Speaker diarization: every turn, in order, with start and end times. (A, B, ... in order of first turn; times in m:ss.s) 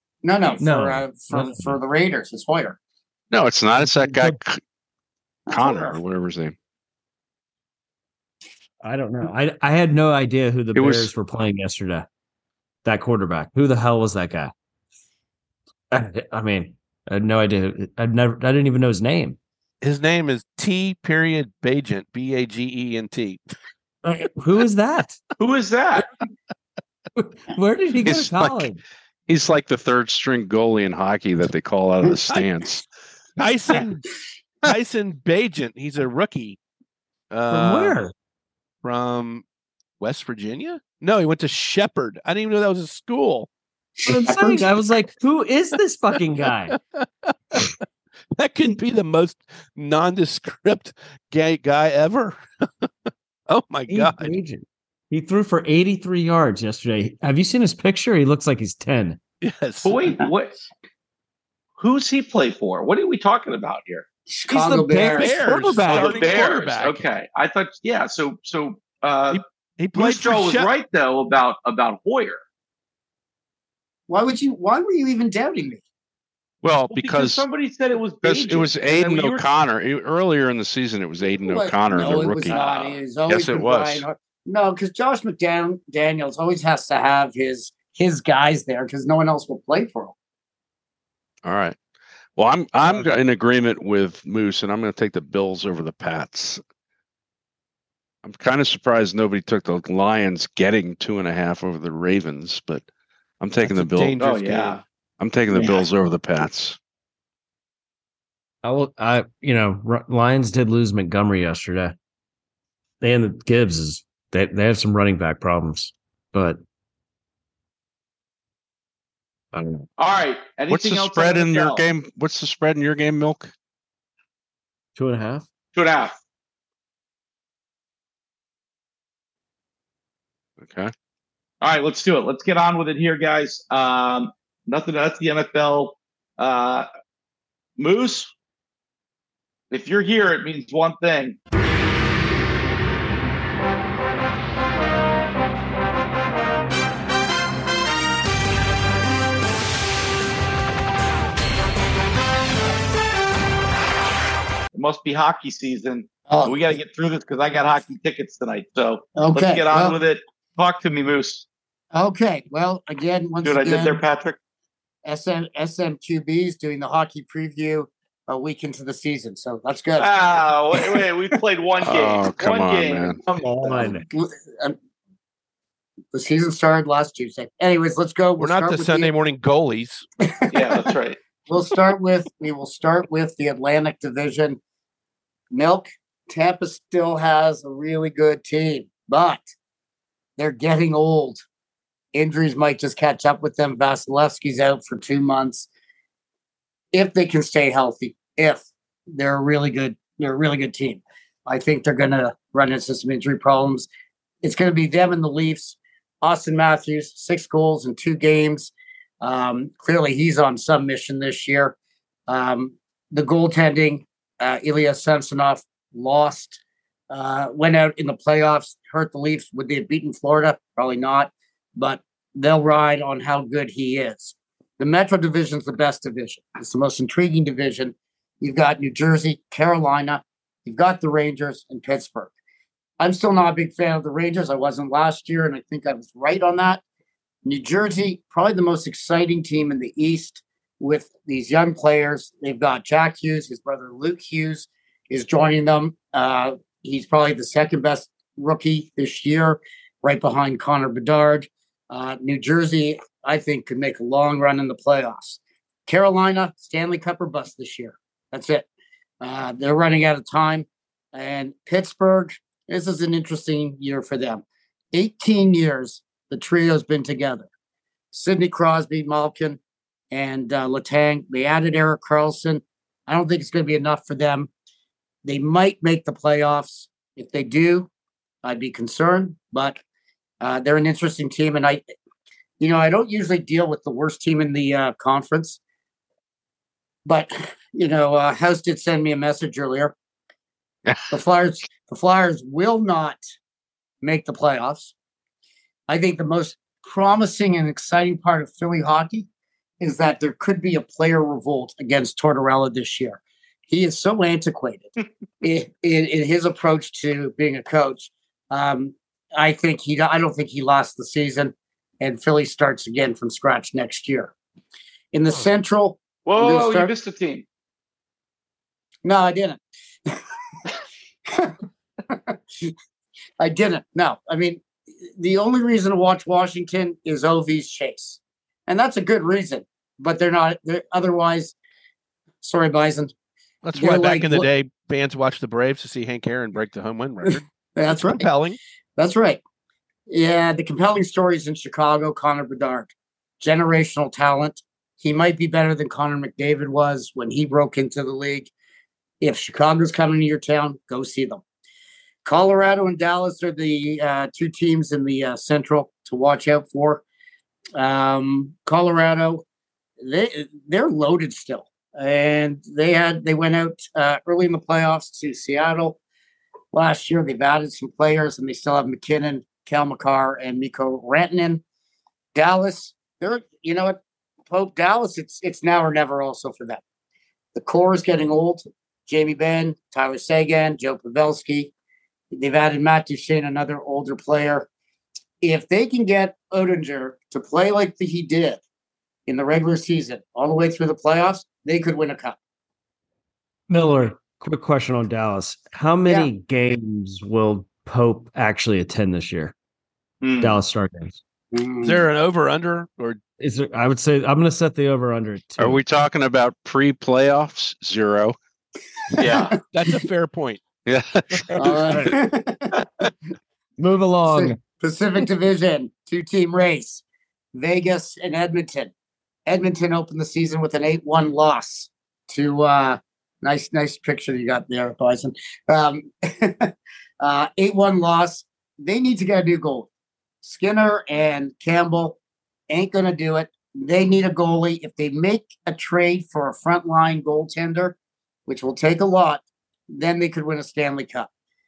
0:00.2-0:02.8 A
0:00.6-0:01.8 B
0:03.3-0:04.6 C
0:03.8-0:04.4 B
0:05.5-0:06.0 A
0:05.5-0:06.6 C
0:08.8-0:12.1 B
0:10.8-0:11.1 D
0:12.8-0:14.5 B
0:15.9-0:19.4 B
0:19.8-0:23.5 E
0:24.0-0:25.2 B
0:25.4-0:26.1 D
0:27.2-0:28.8 B
0:28.0-0:28.7 C
0:29.3-0:32.9 C
0:33.4-0:34.0 E
0:34.6-0:36.6 E
0:37.3-0:38.0 E
0:37.5-0:38.1 B
0:38.8-0:39.4 E
0:40.0-0:43.5 E
0:44.0-0:44.7 A
0:44.1-0:46.8 B
0:46.7-0:47.8 E
0:48.4-0:52.9 E
0:53.5-0:54.3 E
0:53.9-0:59.2 B
0:59.4-1:00.1 E
0:59.8-1:00.6 D
1:01.8-1:04.1 D
1:04.3-1:05.4 A
1:04.5-1:06.4 B
1:05.2-1:07.0 E
1:05.9-1:09.4 D
1:09.3-1:10.7 E
1:09.9-1:12.4 D
1:14.1-1:15.8 A
1:16.6-1:17.4 C
1:16.9-1:19.5 D
1:18.2-1:22.6 C
1:21.5-1:30.2 A
1:22.0-1:23.0 D
1:23.3-1:24.0 C
1:31.4-1:31.8 C
1:32.4-1:36.6 C
1:38.2-1:42.9 C
1:43.4-1:44.2 C
1:43.6-1:44.8 E
1:44.2-1:44.8 D
1:45.2-1:46.8 C
1:48.6-1:52.0 B
1:53.0-1:56.6 B
1:59.5-1:59.9 B
2:00.0-2:01.8 D
2:00.7-2:03.5 C
2:05.0-2:05.5 B
2:05.7-2:06.2 D
2:10.6-2:10.9 C
2:11.6-2:16.9 D
2:17.8-2:18.3 D
2:19.7-2:21.4 D
2:34.7-2:41.5 D
2:36.3-2:36.6 A
2:39.2-2:40.0 A
2:41.9-2:44.0 A
2:43.4-2:44.4 D
2:45.0-2:50.1 A
2:50.0-2:54.0 D
2:50.7-2:51.0 A
2:51.8-2:53.2 C
2:53.3-2:54.0 B
2:54.1-2:54.8 A
2:56.1-2:59.1 A
2:58.4-3:00.1 E
3:00.5-3:01.2 D
3:01.5-3:04.6 A
3:05.5-3:09.5 A
3:10.4-3:11.4 A
3:12.1-3:15.7 A
3:16.9-3:23.9 A
3:24.4-3:31.8 A
3:32.3-3:52.3 A
3:53.0-3:56.8 A
3:57.4-4:18.7 A
4:19.2-4:27.5 A
4:28.1-4:29.6 A
4:30.1-4:34.5 A
4:35.2-4:37.9 A
4:38.4-4:39.8 A
4:40.4-4:41.8 A
4:42.6-4:45.6 A
4:47.0-4:49.9 A
4:51.1-4:53.2 A
4:54.0-4:54.9 A
4:55.9-4:59.3 A
4:59.8-5:14.3 A
5:15.1-5:16.9 A
5:16.3-5:17.4 D
5:19.0-5:20.1 A
5:22.1-5:22.7 A
5:23.4-5:31.5 A
5:32.4-5:33.1 A
5:33.6-5:38.6 E
5:33.8-5:34.5 A
5:37.2-5:38.3 A
5:39.0-5:39.4 A
5:40.1-5:48.5 A
5:49.2-5:51.4 A
5:52.2-5:57.0 A
5:57.8-5:59.4 A
6:00.0-6:06.0 A
6:06.7-6:11.6 A
6:12.4-6:16.8 A
6:17.6-6:21.7 A
6:22.3-6:24.7 A
6:25.4-6:28.6 A
6:29.3-6:32.4 A
6:33.7-6:39.5 B
6:40.2-6:40.6 D
6:40.4-6:41.2 B
6:41.5-6:42.0 A
6:41.8-6:43.2 E
6:43.4-6:45.8 B
6:45.6-6:48.4 C
6:49.2-6:49.6 D
6:49.2-6:49.5 A
6:49.6-6:50.6 E
6:50.9-6:52.1 C
6:51.6-6:52.7 A
6:51.8-6:52.2 B
6:53.8-6:54.6 B
6:54.3-6:57.0 A
6:57.5-6:58.9 A
6:59.5-7:09.9 A
7:10.4-7:12.2 A
7:12.7-7:21.3 A